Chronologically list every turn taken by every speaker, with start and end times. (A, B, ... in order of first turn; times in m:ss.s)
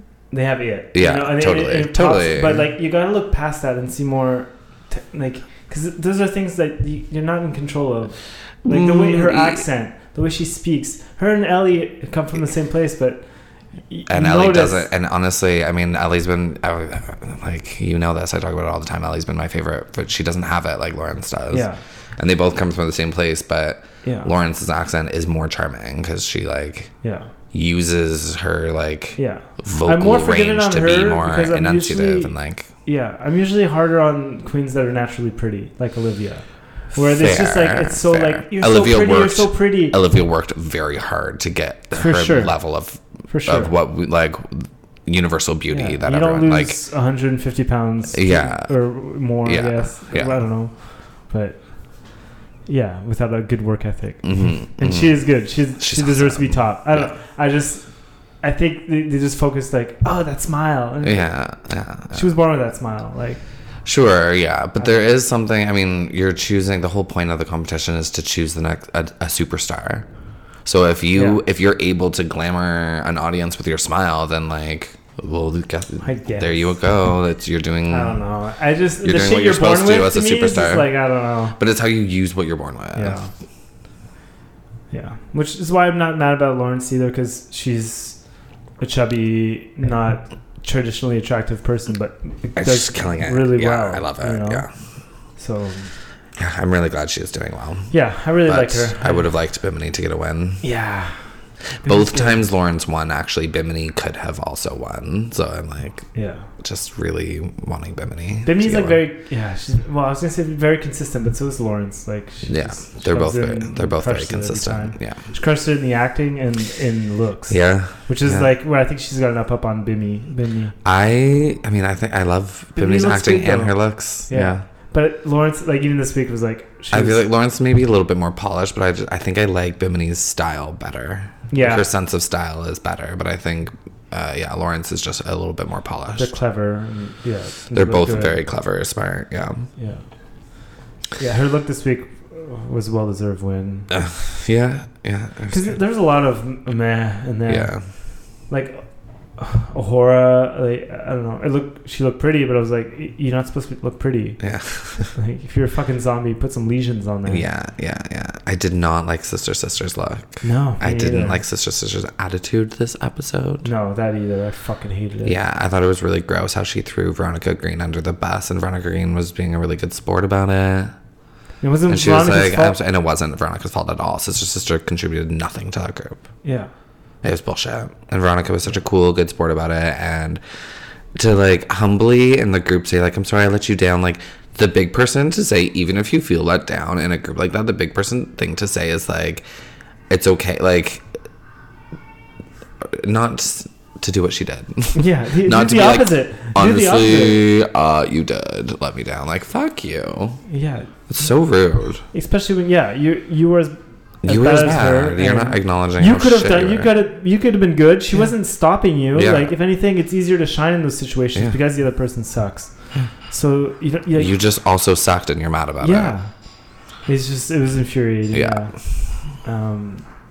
0:00.3-0:14.9 A
0:00.9-0:02.6 B
0:08.7-0:09.6 B
0:14.1-0:26.9 B
0:21.5-0:21.8 A
0:24.0-0:24.3 A
0:27.0-0:27.3 A
0:27.5-0:32.7 B
0:29.2-0:40.0 A
0:37.0-0:46.8 B
0:42.0-0:42.6 A
0:43.3-0:43.7 A
0:45.7-1:01.3 A
0:48.1-0:48.8 B
0:49.4-0:50.4 B
0:54.2-0:55.2 B
0:55.8-0:57.1 B
1:01.0-1:02.3 B
1:02.1-1:03.4 A
1:03.8-1:10.1 B
1:04.8-1:05.1 A
1:10.6-1:18.2 B
1:11.1-1:11.4 A
1:16.0-1:16.8 A
1:17.9-1:21.6 A
1:19.0-1:20.9 B
1:21.6-1:23.2 B
1:22.9-1:23.3 A
1:24.9-1:28.2 A
1:28.8-1:34.6 A
1:32.6-1:34.7 B
1:35.4-1:35.9 A
1:36.4-1:37.9 B
1:37.9-1:39.3 A
1:38.4-1:40.6 B
1:40.6-1:41.2 A
1:41.8-1:42.5 A
1:41.8-1:46.1 B
1:46.1-1:46.5 A
1:46.6-1:49.0 B
1:48.5-2:00.7 A
1:52.5-1:55.2 B
1:57.5-1:58.5 B
2:00.8-2:04.6 B
2:02.8-2:07.2 A
2:06.9-2:16.3 B
2:11.5-2:11.9 A
2:16.2-2:18.4 A
2:17.7-2:19.7 B
2:19.8-2:20.0 A
2:21.2-2:23.9 A
2:23.9-2:25.8 B
2:25.5-2:27.8 A
2:27.5-2:27.8 B
2:28.5-2:34.4 A
2:34.4-2:35.1 B
2:35.2-2:37.4 A
2:37.3-2:43.7 B
2:40.4-2:41.4 A
2:43.6-2:45.4 A
2:45.2-2:50.9 B
2:51.6-2:52.8 A
2:51.9-2:56.2 B
2:56.4-2:56.7 A
2:57.2-3:00.4 B
3:01.2-3:09.4 B
3:10.1-3:11.1 B
3:12.8-3:20.4 B
3:14.9-3:17.4 A
3:20.5-3:20.9 A
3:21.1-3:22.0 B
3:22.1-3:34.4 A
3:24.2-3:26.9 B
3:29.1-3:29.5 B
3:34.2-3:36.1 B
3:35.8-3:36.3 A
3:37.0-3:38.7 A
3:38.3-3:38.6 B
3:39.4-3:40.1 A